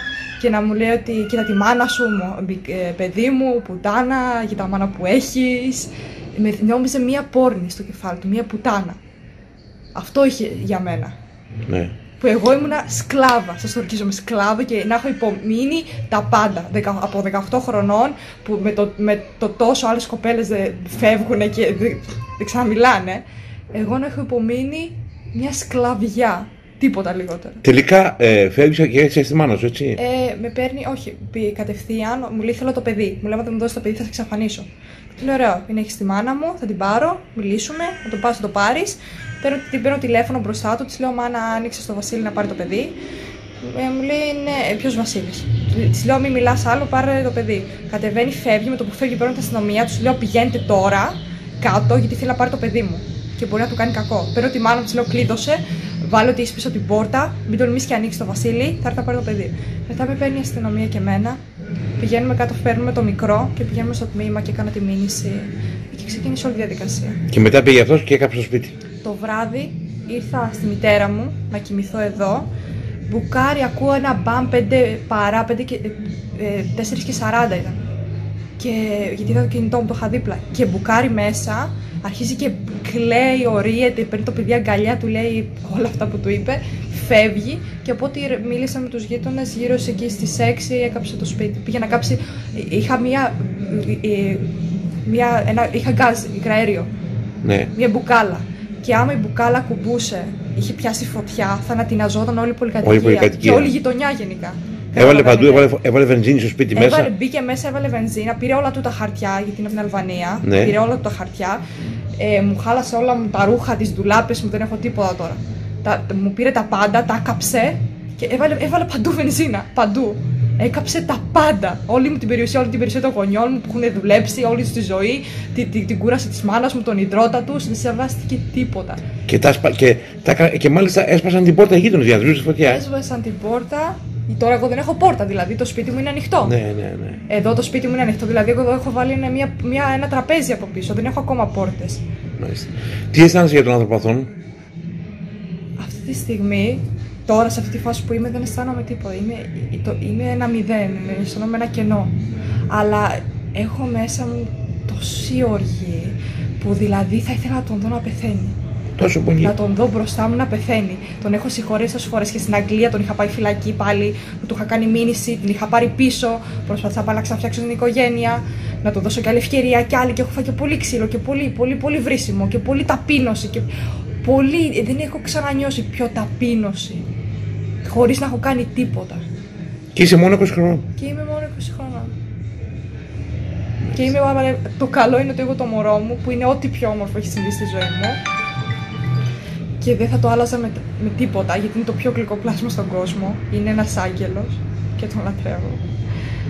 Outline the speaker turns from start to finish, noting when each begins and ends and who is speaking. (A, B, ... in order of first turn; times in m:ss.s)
0:00.4-0:09.0 A
0:09.9-0:11.2 A
0:11.7-0:11.9 B
0:12.2-0:27.6 A
0:27.6-0:30.0 B
0:30.0-0:43.0 A
0:43.6-1:01.4 A
1:02.0-1:07.2 A
1:07.3-1:08.7 B
1:09.0-1:12.5 A
1:13.1-1:17.8 A
1:18.6-1:36.9 A
1:37.4-1:37.7 B
1:37.7-1:45.7 A
1:42.8-1:43.7 B
1:45.0-1:47.1 B
1:46.7-1:51.6 A
1:50.4-1:50.8 B
1:52.2-2:09.0 A
2:09.3-2:12.8 B
2:12.7-2:16.5 A
2:16.4-2:17.2 B
2:17.3-2:22.0 A
2:22.4-2:24.3 B
2:25.8-2:32.1 A
2:32.7-2:38.6 A
2:39.0-2:39.5 B
2:39.4-2:53.7 A
2:54.2-2:57.0 A
2:57.8-2:59.2 A
2:59.9-3:00.8 B
3:01.0-3:02.1 A
3:03.9-3:08.2 A
3:09.8-3:15.8 A